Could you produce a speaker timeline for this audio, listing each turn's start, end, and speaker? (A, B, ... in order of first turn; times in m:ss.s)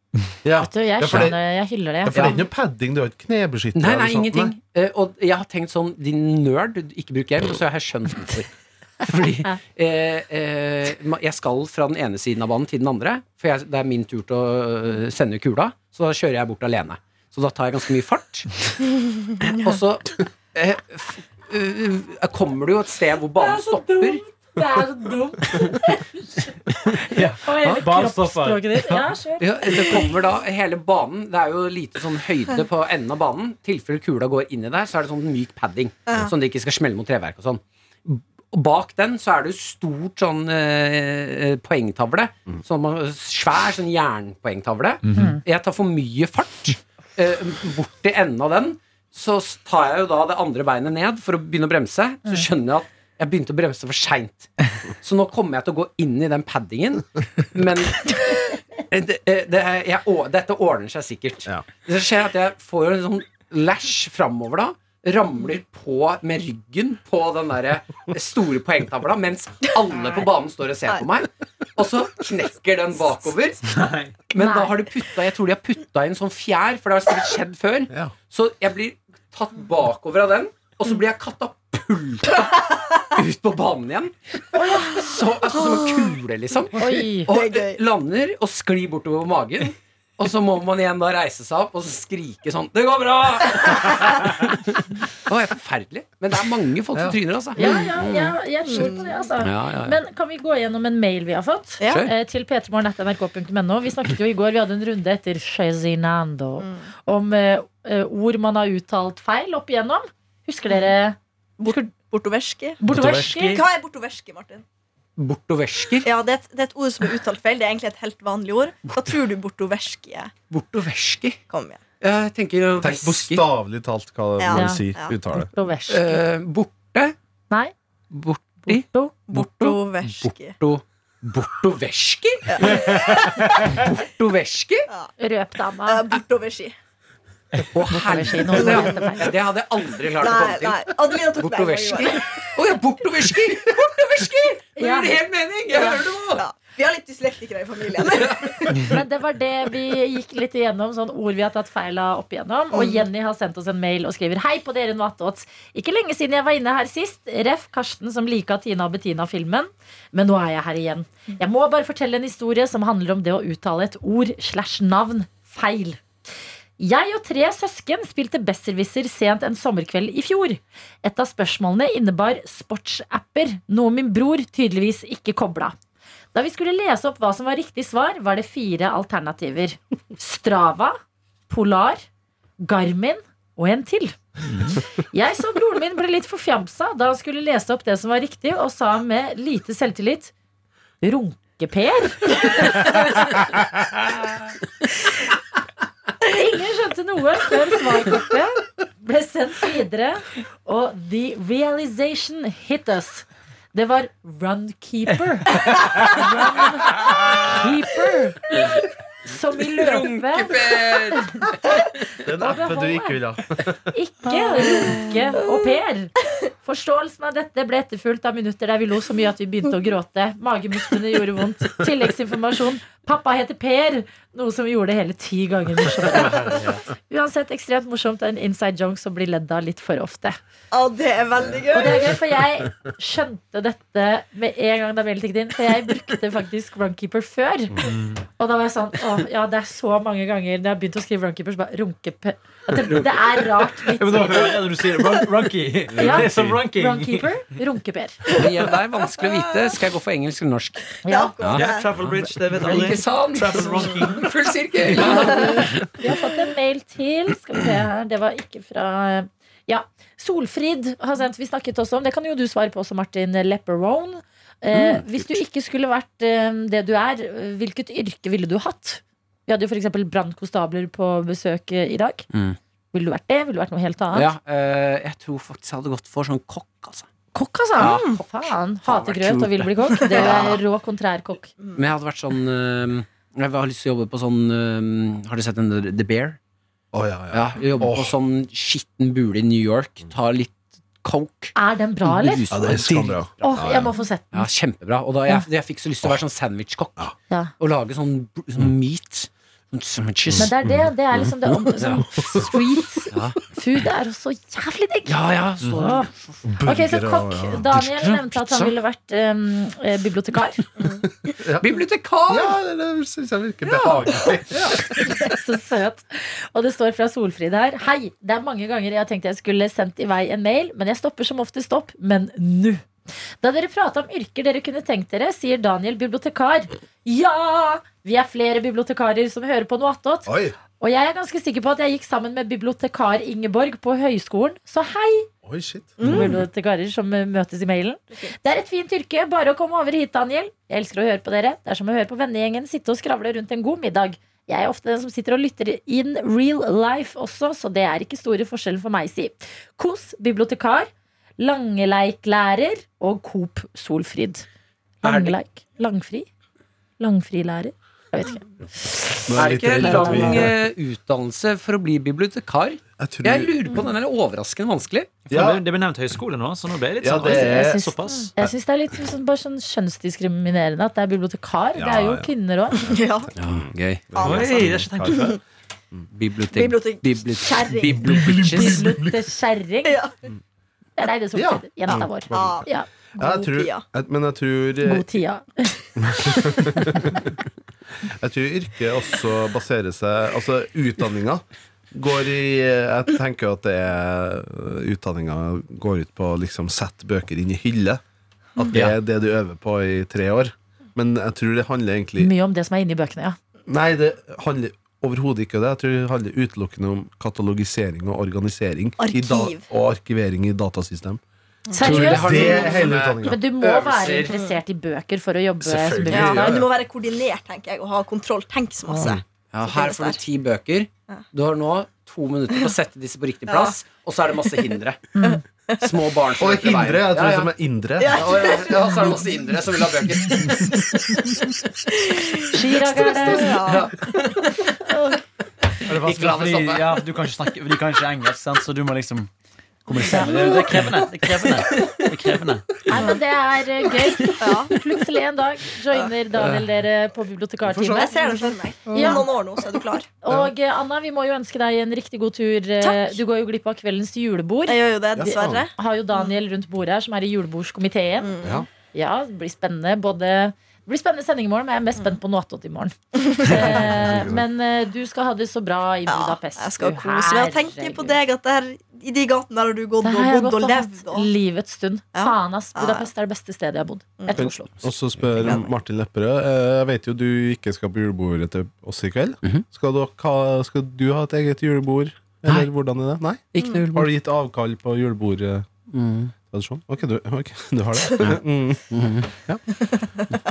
0:00.4-0:01.4 A
0:00.6-0:02.4 B
0:02.0-0:04.5 A
0:03.7-0:18.6 C
0:19.4-0:24.2 C
0:23.4-0:26.6 B
0:27.1-0:29.0 D
0:27.1-0:27.8 C
0:27.4-0:30.1 B
0:29.4-0:54.5 C
0:36.1-0:36.3 E
0:45.0-0:45.4 D
0:45.1-0:45.4 B
0:55.0-0:58.2 C
0:58.9-1:13.6 C
1:13.6-1:14.2 D
1:14.3-1:22.5 C
1:14.4-1:14.8 B
1:23.0-1:24.1 C
1:24.6-1:25.0 B
1:24.8-1:34.5 C
1:26.8-1:27.3 B
1:27.3-1:27.8 E
1:35.3-1:38.3 C
1:37.5-1:51.2 B
1:38.7-1:39.2 E
1:39.4-1:40.0 C
1:41.8-1:42.1 E
1:41.8-1:42.1 C
1:46.6-1:46.9 E
1:51.6-1:54.6 E
1:52.8-1:53.6 B
1:52.9-1:53.6 D
1:55.2-1:56.1 C
1:56.0-2:00.3 E
2:00.5-2:01.4 C
2:01.5-2:01.8 E
2:02.0-2:03.5 C
2:02.8-2:05.5 A
2:04.4-2:05.2 E
2:04.5-2:04.8 B
2:05.4-2:06.2 B
2:05.9-2:07.1 C
2:08.1-2:14.9 C
2:08.6-2:09.1 B
2:09.3-2:10.6 E
2:12.5-2:13.2 E
2:15.2-2:16.0 B
2:15.8-2:16.8 E
2:17.7-2:26.4 C
2:17.9-2:19.3 B
2:18.5-2:19.3 E
2:20.1-2:22.4 E
2:24.8-2:25.2 B
2:25.7-2:28.9 E
2:28.2-2:29.0 C
2:28.8-2:46.0 B
2:32.7-2:33.0 E
2:46.8-2:55.8 B
2:56.3-3:01.0 B
3:01.5-3:02.0 B
3:02.6-3:04.2 B
3:04.5-3:04.8 D
3:05.1-3:10.3 B
3:11.0-3:13.2 B
3:16.2-3:28.6 B
3:29.2-3:31.5 B
3:29.7-3:31.8 C
3:32.2-3:33.8 A
3:32.4-3:33.2 B
3:33.9-3:50.4 B
3:34.6-3:35.1 E
3:46.1-3:46.8 D
3:50.7-3:52.2 E
3:51.7-4:04.6 B
3:57.8-3:58.2 D
4:04.0-4:07.3 D
4:06.0-4:08.2 B
4:06.0-4:06.5 C
4:08.3-4:11.7 C
4:09.2-4:09.6 E
4:11.0-4:11.3 B
4:11.0-4:11.9 E
4:11.4-4:14.3 D
4:12.6-4:15.9 C
4:15.0-4:32.2 B
4:24.7-4:25.0 C
4:32.3-4:32.6 C
4:32.9-4:34.3 B
4:34.1-4:37.1 C
4:37.3-4:41.5 B
4:37.8-4:38.2 C
4:37.8-4:38.2 E
4:38.8-4:40.6 C
4:40.0-4:40.5 E
4:41.7-4:46.4 C
4:46.9-4:48.1 A
4:47.3-5:00.7 C
4:51.5-4:52.5 B
4:52.5-4:53.9 A
4:53.4-4:54.5 B
5:00.3-5:06.1 B
5:01.4-5:02.5 C
5:02.2-5:02.4 A
5:03.1-5:03.4 C
5:05.0-5:06.5 C
5:06.4-5:07.8 A
5:06.6-5:10.6 B
5:07.7-5:08.8 C
5:11.4-5:11.8 A
5:11.6-5:12.6 C
5:12.3-5:15.4 A
5:14.9-5:22.8 B
5:23.4-5:35.3 B
5:30.2-5:30.5 A
5:35.4-5:36.4 A
5:36.0-5:36.4 E
5:36.0-5:54.4 B
5:55.0-5:56.3 B
5:55.0-5:55.4 C
5:57.0-6:00.5 B
5:59.3-6:00.5 A
5:59.3-6:05.2 C
6:03.0-6:03.5 A
6:05.3-6:05.6 A
6:05.3-6:08.3 D
6:07.0-6:08.5 A
6:07.3-6:12.8 B
6:11.8-6:13.6 A
6:12.8-6:13.3 E
6:13.4-6:14.1 C
6:14.1-6:15.3 A
6:14.1-6:15.4 E
6:14.2-6:15.4 D
6:16.1-6:19.0 C
6:16.5-6:18.0 E
6:17.4-6:20.0 B
6:18.0-6:19.1 A
6:19.8-6:20.1 E
6:21.0-6:23.5 B
6:21.3-6:22.7 A
6:21.9-6:22.7 E
6:23.2-6:25.1 A
6:23.2-6:23.8 E
6:24.8-6:25.8 B
6:26.0-6:27.3 A
6:26.7-6:27.0 B
6:28.0-6:38.0 A
6:38.6-6:42.3 A
6:42.2-6:43.4 B
6:43.7-6:51.2 A
6:49.0-6:49.6 E
6:51.7-6:52.9 E
6:51.7-6:56.6 B
6:51.8-6:54.3 C
6:51.8-6:53.4 A
6:54.3-6:54.6 E
6:55.6-6:56.7 A
6:56.1-7:00.2 E
6:59.5-7:05.1 C
7:03.5-7:03.8 E
7:05.1-7:05.4 B
7:05.2-7:06.0 E
7:05.8-7:07.5 C
7:06.4-7:08.7 A
7:08.0-7:09.7 E
7:08.1-7:10.8 C
7:11.9-7:14.1 E
7:12.5-7:13.6 B
7:13.3-7:14.5 C
7:15.8-7:16.9 C
7:15.9-7:19.3 D
7:19.8-7:22.8 D
7:20.1-7:20.6 B
7:20.3-7:20.8 C
7:21.7-7:22.1 C
7:22.8-7:29.3 B
7:22.9-7:23.2 E
7:24.4-7:24.7 E
7:27.6-7:28.3 A
7:27.9-7:30.1 E
7:28.8-7:29.3 A
7:30.2-7:38.3 B
7:32.8-7:33.2 E
7:34.6-7:36.3 E
7:35.1-7:35.7 A
7:38.2-7:38.6 E
7:38.4-7:38.7 A
7:38.9-7:48.2 B
7:43.3-7:43.9 E
7:43.7-7:44.4 A
7:46.1-7:51.3 E
7:50.0-7:54.7 B
7:52.1-7:53.1 E
7:54.2-7:54.5 E
7:54.3-8:05.7 A
7:55.4-7:55.7 E
8:02.4-8:02.7 C
8:03.5-8:04.1 C
8:05.9-8:06.3 C
8:06.4-8:08.9 A
8:08.9-8:09.3 C
8:09.8-8:10.3 E